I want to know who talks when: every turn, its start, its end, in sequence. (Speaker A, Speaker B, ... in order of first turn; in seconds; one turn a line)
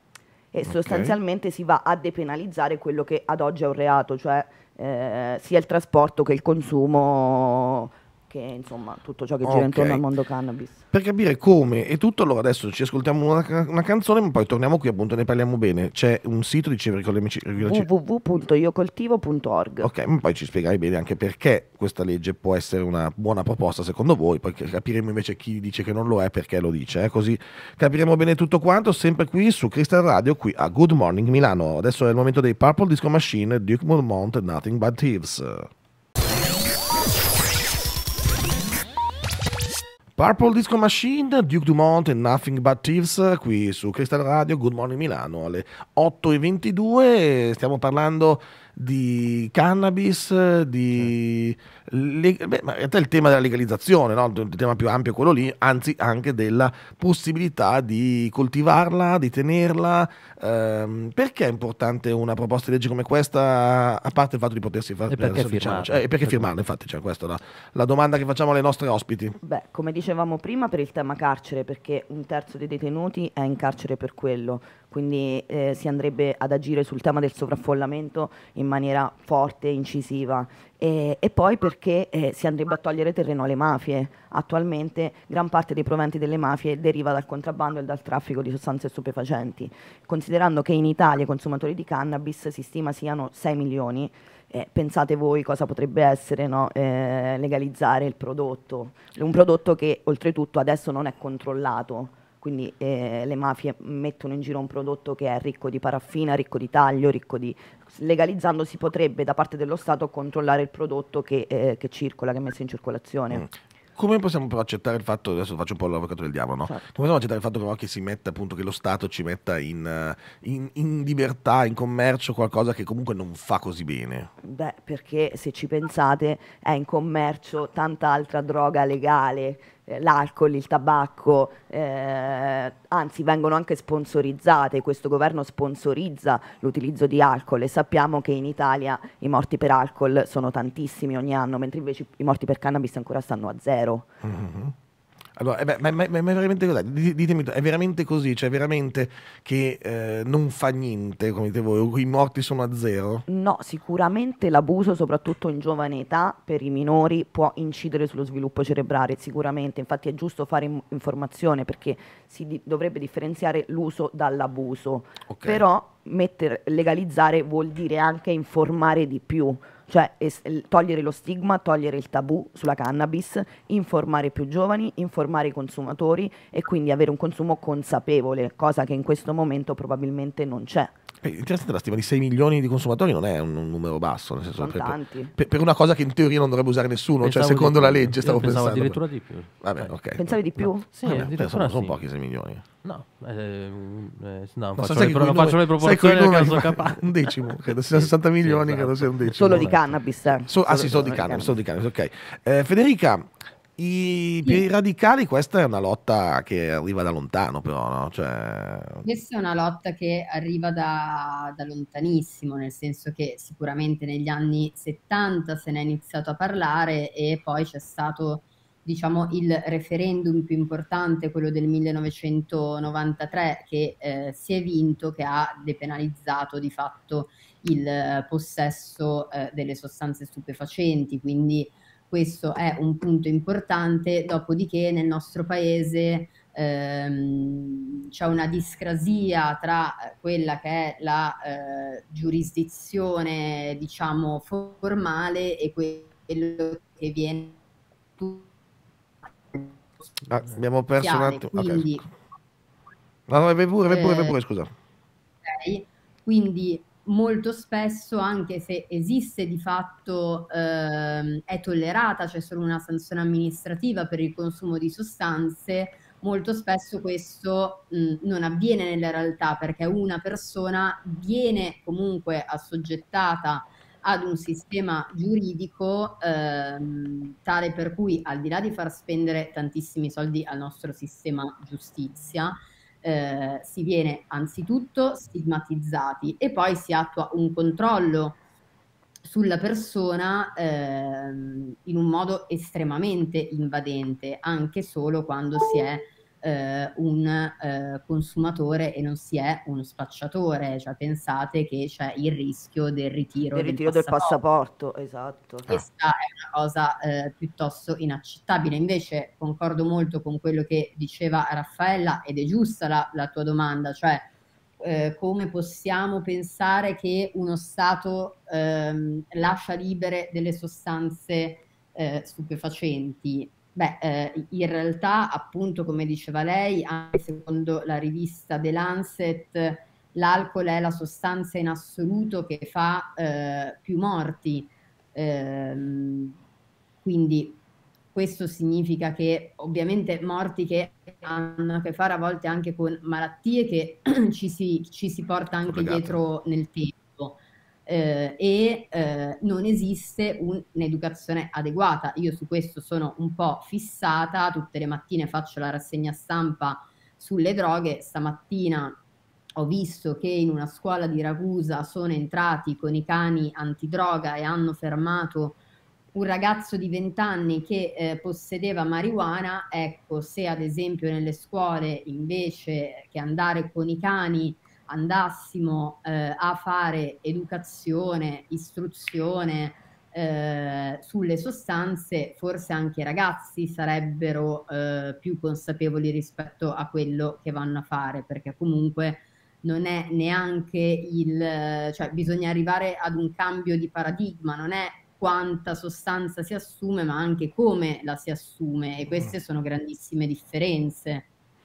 Speaker A: 0.5-10.8
Speaker B: 0.7-1.1
Speaker B: 9.4-10.0
Speaker B: 10.9-17.9
Speaker A: 17.6-19.9
Speaker B: 19.8-35.7
Speaker B: 40.2-69.4
Speaker C: 65.1-66.5
Speaker A: 69.4-113.5
Speaker B: 113.3-124.3
Speaker A: 124.4-144.1
Speaker B: 144.2-144.7
Speaker B: 145.4-153.3
Speaker A: 153.3-180.9
Speaker B: 165.3-165.6
Speaker B: 181.2-189.0
Speaker A: 184.6-185.3
Speaker C: 187.2-190.0
Speaker B: 189.6-190.3
Speaker A: 190.2-190.9
Speaker C: 190.6-192.0
Speaker B: 191.0-192.7
Speaker C: 192.8-199.9
Speaker B: 194.8-199.7
Speaker A: 199.3-201.6
Speaker B: 200.5-209.1
Speaker D: 209.1-247.6
Speaker D: 248.2-248.5
Speaker D: 249.5-250.2
Speaker B: 250.3-252.0
Speaker D: 251.0-252.1
Speaker B: 253.3-254.7
Speaker D: 253.9-254.3
Speaker D: 255.4-288.4
Speaker D: 289.2-304.4
Speaker A: 303.5-305.7
Speaker D: 305.7-336.4
Speaker D: 337.0-337.6
Speaker D: 338.1-359.0
Speaker B: 345.6-346.2
Speaker D: 359.6-365.6
Speaker D: 366.1-401.3